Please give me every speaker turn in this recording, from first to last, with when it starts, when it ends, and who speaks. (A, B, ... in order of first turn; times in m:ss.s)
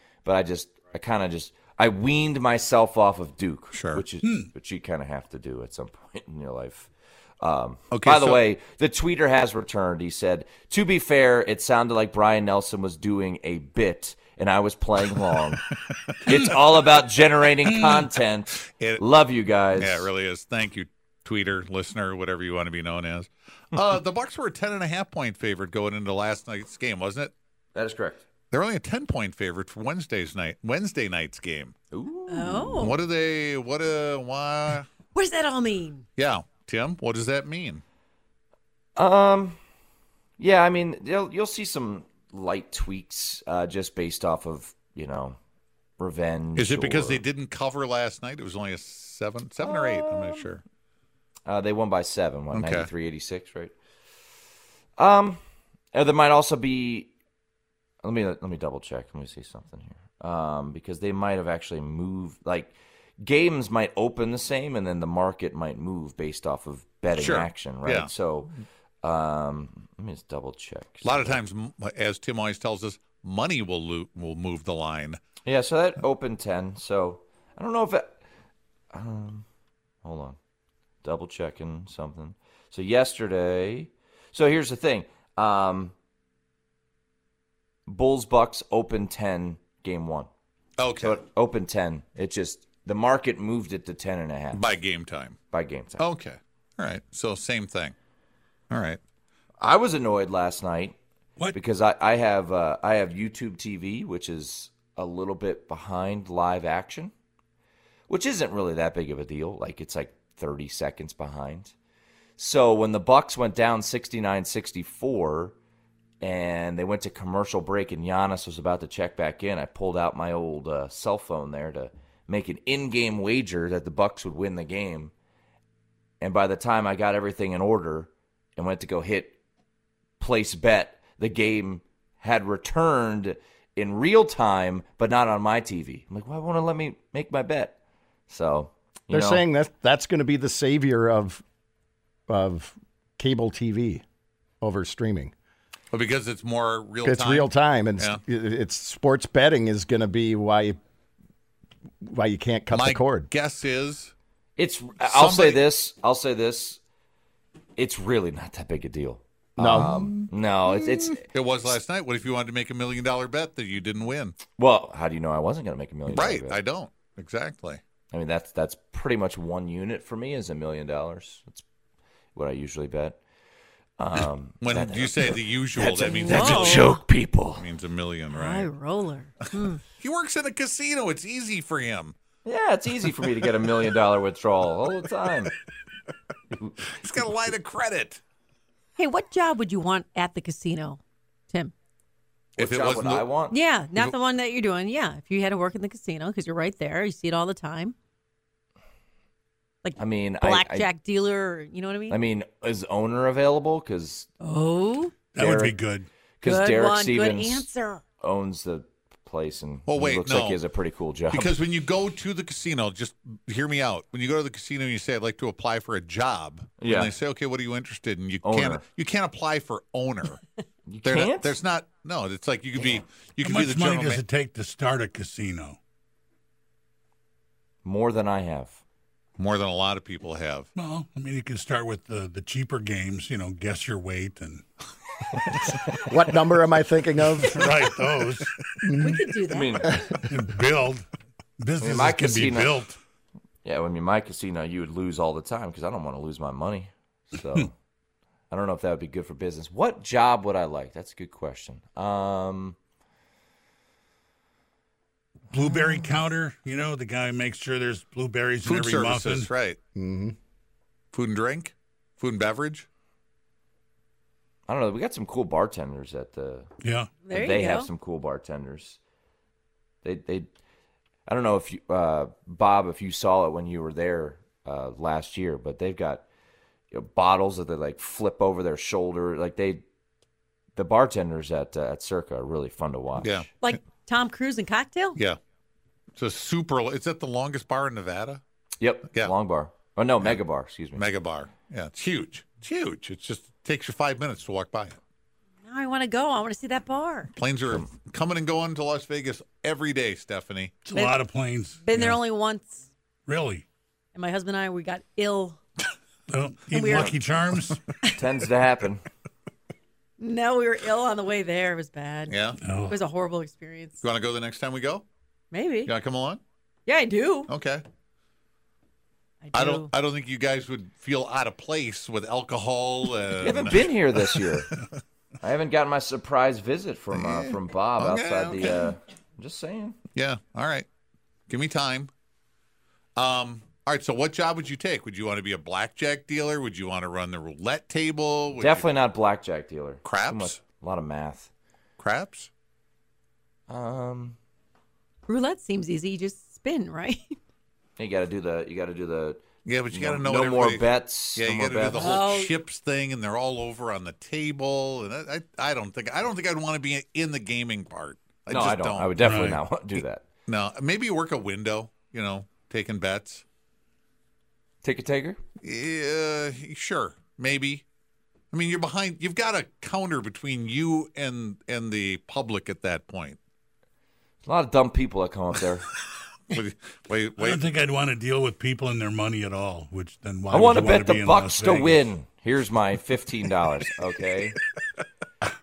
0:00.2-0:06.9 A
0:03.7-0:04.0 B
0:04.2-0:04.5 C
0:07.4-0:20.1 A
0:07.9-0:08.4 B
0:17.7-0:18.1 C
0:18.7-0:19.0 B
0:19.8-0:27.3 B
0:27.8-0:28.2 A
0:28.5-0:31.7 B
0:31.9-0:32.9 A
0:32.3-0:33.0 D
0:32.8-0:34.9 B
0:35.1-0:36.0 D
0:36.2-0:37.8 B
0:39.0-0:39.6 A
0:40.4-0:45.4 A
0:46.0-0:47.2 A
0:46.6-0:50.6 B
0:49.6-0:50.5 A
0:51.5-0:53.8 A
0:52.5-0:52.9 B
0:55.0-0:55.4 A
0:55.9-0:57.1 A
0:58.0-1:11.4 A
1:07.2-1:08.1 B
1:11.0-1:15.2 B
1:15.4-1:18.2 A
1:18.9-1:19.5 A
1:20.0-1:20.4 A
1:21.0-1:25.9 A
1:27.9-1:30.3 A
1:30.8-1:31.2 B
1:31.0-1:34.6 A
1:34.5-1:35.4 B
1:35.5-1:36.0 A
1:36.0-1:37.9 B
1:38.7-1:39.0 B
1:39.6-1:41.0 A
1:41.5-1:47.1 A
1:48.1-1:51.7 A
1:52.4-1:55.6 A
1:56.2-2:05.1 A
2:06.2-2:09.4 A
2:10.2-2:17.8 A
2:18.3-2:19.4 A
2:19.1-2:21.4 E
2:22.3-2:24.0 E
2:24.6-2:25.3 E
2:25.9-2:28.2 B
2:27.0-2:30.8 E
2:32.0-2:33.3 E
2:32.7-2:34.1 B
2:34.6-2:36.8 A
2:35.0-2:35.6 B
2:37.8-2:41.2 A
2:39.6-2:40.2 E
2:39.7-2:44.4 B
2:44.5-2:46.6 A
2:46.1-2:47.8 B
2:48.1-2:51.6 A
2:52.4-2:53.2 A
2:54.0-2:57.6 A
2:54.6-2:56.9 B
2:56.0-2:57.0 D
2:57.6-2:58.7 B
2:58.3-2:59.8 D
3:00.0-3:02.2 B
3:02.4-3:05.5 A
3:06.5-3:07.5 A
3:07.0-3:08.2 B
3:09.0-3:11.7 D
3:12.6-3:13.3 B
3:12.6-3:13.6 A
3:13.5-3:18.0 D
3:19.8-3:22.2 D
3:20.0-3:20.9 A
3:22.1-3:24.3 A
3:24.4-3:25.2 D
3:25.3-3:26.1 C
3:25.4-3:25.8 A
3:26.4-3:27.7 A
3:26.4-3:28.0 D
3:28.2-3:31.6 A
3:29.9-3:30.6 B
3:31.3-3:40.4 B
3:36.8-3:37.1 A
3:38.4-3:38.8 A
3:40.9-3:41.6 A
3:41.0-3:44.2 B
3:43.4-3:45.8 C
3:47.8-3:48.8 A
3:49.4-3:50.7 B
3:50.8-3:54.7 C
3:55.4-3:55.8 C
3:56.0-3:57.8 E
3:57.4-3:58.6 C
3:58.8-3:59.3 E
3:59.0-4:00.0 D
3:59.5-4:00.0 A
3:59.8-4:00.2 E
4:00.3-4:01.1 C
4:01.6-4:03.0 C
4:01.8-4:02.8 A
4:03.6-4:07.8 A
4:08.5-4:12.8 A
4:15.5-4:19.5 C
4:18.6-4:19.8 B
4:20.0-4:20.4 E
4:21.1-4:22.9 B
4:24.7-4:26.7 A
4:26.8-4:27.1 C
4:27.2-4:27.9 D
4:27.3-4:29.0 A
4:30.0-4:30.5 A
4:31.3-4:36.2 A
4:36.9-4:39.8 A
4:40.8-4:43.5 A
4:43.2-4:43.5 B
4:43.6-4:45.2 D
4:46.2-4:48.4 B
4:48.8-4:51.0 A
4:51.0-4:55.0 B
4:55.6-4:57.3 D
4:57.4-5:00.8 B
5:00.8-5:02.2 C
5:00.9-5:01.2 D
5:01.8-5:02.9 D
5:03.3-5:03.6 C
5:04.2-5:05.6 D
5:06.3-5:07.8 C
5:06.7-5:07.2 D
5:08.2-5:09.0 A
5:10.2-5:12.4 D
5:12.3-5:12.6 B
5:12.6-5:13.0 C
5:12.9-5:14.0 D
5:14.0-5:15.0 B
5:15.5-5:15.9 D
5:15.9-5:16.4 B
5:16.9-5:17.5 D
5:17.5-5:17.8 B
5:19.4-5:19.9 D
5:19.5-5:23.9 B
5:23.4-5:24.7 A
5:25.4-5:30.0 A
5:27.1-5:29.0 B
5:30.2-5:30.9 B
5:31.5-5:32.1 B
5:33.2-5:38.9 B
5:38.6-5:41.5 A
5:40.0-5:40.6 B
5:42.0-5:42.5 B
5:43.7-5:44.4 A
5:45.3-5:47.4 D
5:48.0-5:52.2 A
5:49.6-5:59.1 B
5:51.9-5:52.5 D
5:58.5-6:00.2 A
5:59.2-5:59.6 C
6:00.5-6:03.4 B
6:04.8-6:05.4 A
6:05.6-6:07.8 B
6:08.5-6:13.4 B
6:14.4-6:15.9 A
6:16.5-6:17.6 B
6:17.4-6:22.0 C
6:20.5-6:24.6 A